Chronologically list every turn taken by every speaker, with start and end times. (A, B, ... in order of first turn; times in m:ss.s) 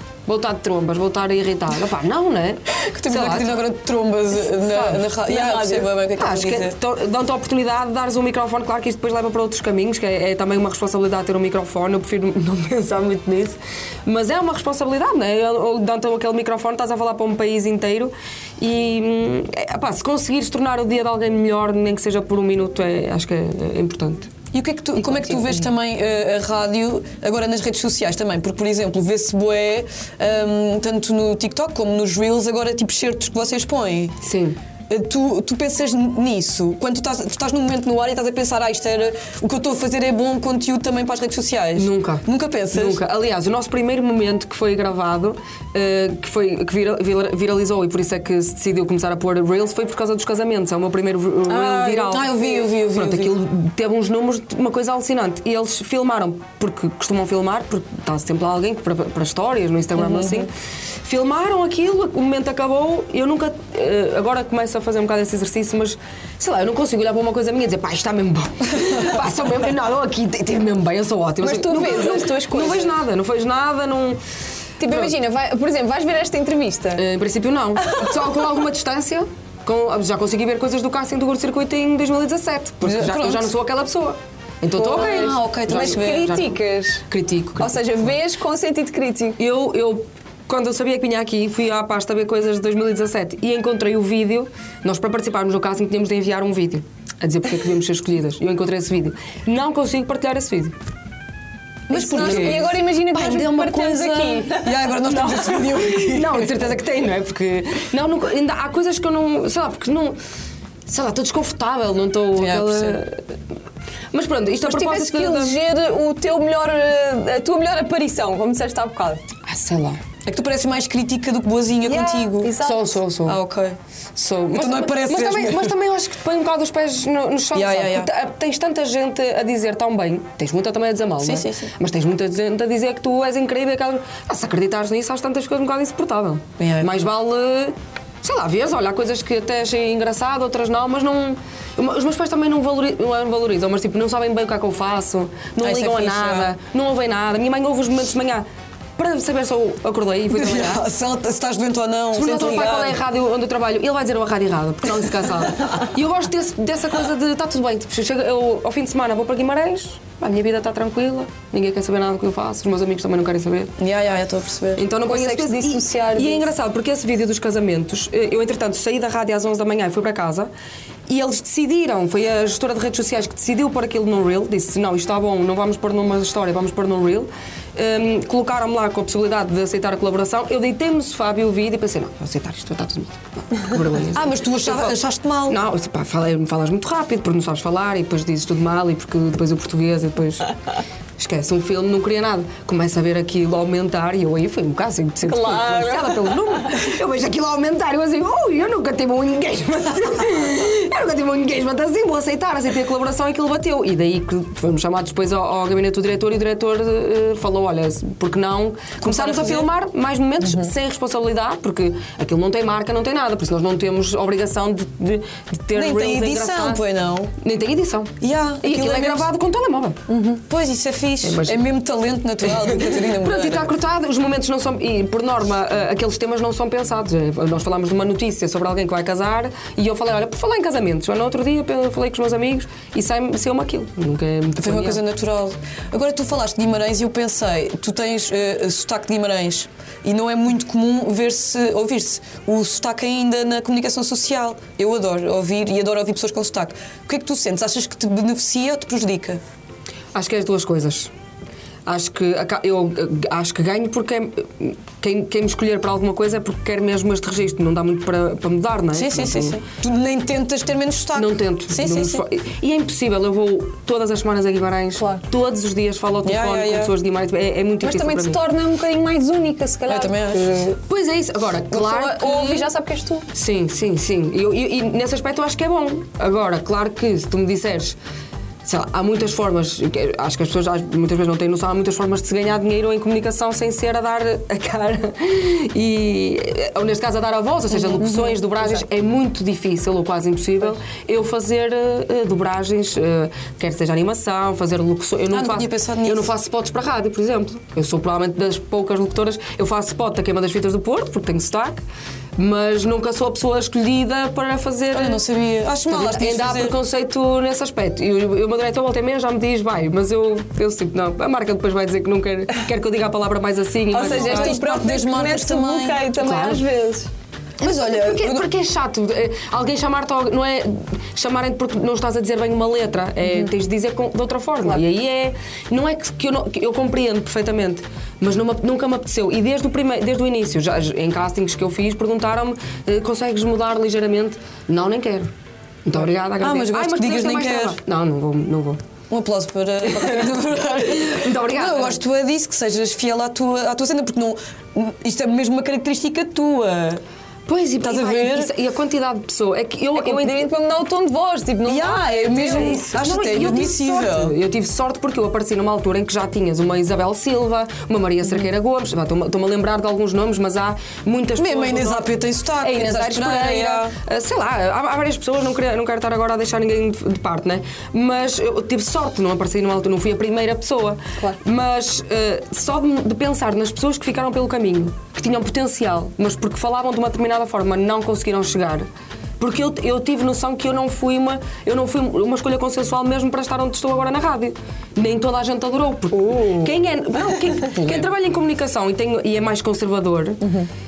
0:00.3-0:03.6 A
0:02.9-0:06.7 B
0:04.5-0:05.1 A
0:05.2-0:05.9 C
0:06.2-0:24.3 A
0:24.5-0:34.1 B
0:34.2-0:34.6 A
0:34.9-0:43.0 B
0:41.8-1:00.5 A
0:51.5-0:53.4 B
1:00.0-1:00.5 B
1:01.0-1:14.2 A
1:11.4-1:13.0 C
1:14.8-1:17.0 C
1:14.9-1:15.1 A
1:17.0-1:26.5 A
1:22.8-1:23.5 B
1:24.8-1:26.3 B
1:24.8-1:27.0 C
1:27.1-1:28.0 A
1:27.6-1:29.4 C
1:29.4-1:40.7 A
1:41.9-1:46.7 B
1:41.9-1:44.4 A
1:42.0-1:44.8 C
1:45.0-1:50.2 A
1:50.9-1:53.3 A
1:52.4-1:53.0 B
1:54.1-1:55.6 A
1:54.6-1:59.2 C
1:59.4-2:00.0 A
2:00.2-2:02.6 B
2:01.8-2:03.0 C
2:02.6-2:03.4 A
2:03.2-2:03.8 B
2:04.2-2:28.4 A
2:04.5-2:05.7 B
2:07.5-2:08.1 B
2:11.2-2:11.7 B
2:16.6-2:16.9 B
2:25.6-2:26.5 B
2:29.0-2:30.8 A
2:30.3-2:33.0 B
2:32.1-2:43.7 A
2:43.8-2:44.8 B
2:44.8-2:50.5 A
2:45.0-2:46.5 C
2:51.1-3:05.0 A
3:04.1-3:05.6 B
3:05.5-3:10.5 A
3:11.2-3:36.8 A
3:15.2-3:16.7 C
3:29.0-3:29.7 B
3:35.7-3:37.3 B
3:37.4-3:40.0 A
3:38.2-3:39.3 B
3:40.1-3:40.4 C
3:40.5-3:43.7 B
3:41.2-3:41.6 A
3:42.4-3:55.0 A
3:54.6-4:09.4 B
4:10.1-4:11.1 A
4:11.8-4:19.6 A
4:18.9-4:22.2 B
4:21.1-4:28.4 A
4:25.0-4:25.2 C
4:26.2-4:26.9 B
4:27.8-4:30.7 C
4:29.9-4:30.6 B
4:30.3-4:32.7 A
4:31.7-4:33.2 C
4:33.3-4:38.0 A
4:38.6-5:01.8 A
4:48.0-4:48.8 C
4:55.3-4:56.3 B
5:02.4-5:05.2 A
5:04.9-5:06.8 B
5:05.9-5:14.6 A
5:13.9-5:17.1 C
5:14.0-5:16.1 B
5:16.2-5:16.6 A
5:17.6-5:18.5 B
5:17.6-5:35.3 A
5:35.8-5:38.8 A
5:36.4-5:37.8 B
5:39.1-5:47.0 B
5:39.9-5:42.0 A
5:47.5-5:50.4 A
5:47.8-5:48.5 B
5:49.9-5:52.8 C
5:51.6-5:54.3 B
5:52.3-6:18.9 A
6:01.4-6:03.9 B
6:19.4-6:30.4 A
6:26.1-6:26.8 C
6:30.4-6:30.7 C